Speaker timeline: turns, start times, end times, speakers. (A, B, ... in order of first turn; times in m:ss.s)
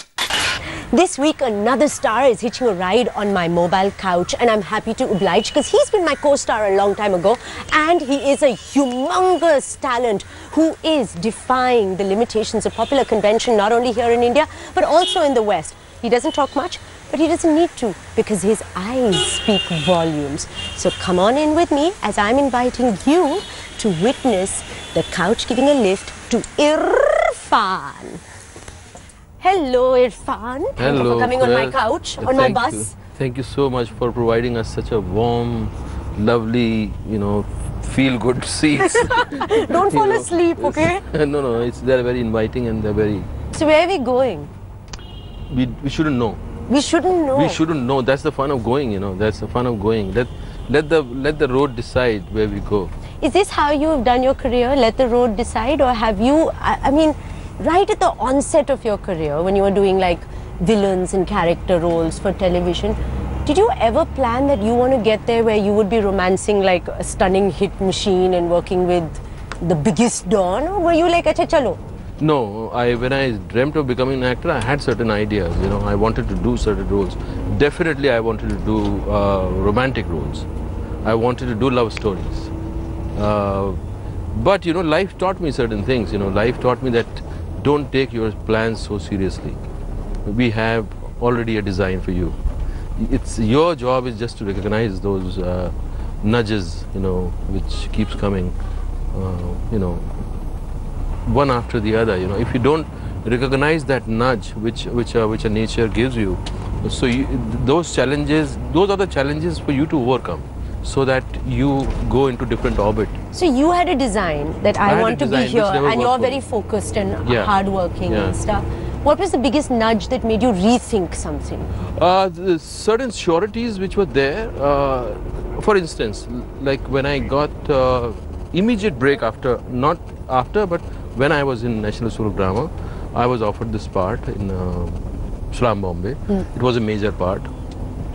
0:00.9-0:28.2 A
0:29.4-0:32.9 A
0:30.8-0:43.3 B
0:38.8-0:41.0 A
0:43.5-0:44.5 A
0:45.5-0:46.4 B
0:46.7-0:47.6 A
0:47.3-0:52.9 B
0:53.2-1:11.8 A
1:12.2-1:20.5 B
1:21.0-1:22.5 B
1:23.2-1:23.8 B
1:24.3-1:29.6 B
1:30.2-1:32.4 B
1:33.0-1:38.6 B
1:39.1-1:40.3 B
1:41.3-1:53.2 B
1:53.3-2:01.8 A
1:54.9-1:56.4 B
1:57.2-1:57.5 B
1:58.1-1:58.4 B
2:01.9-2:17.5 B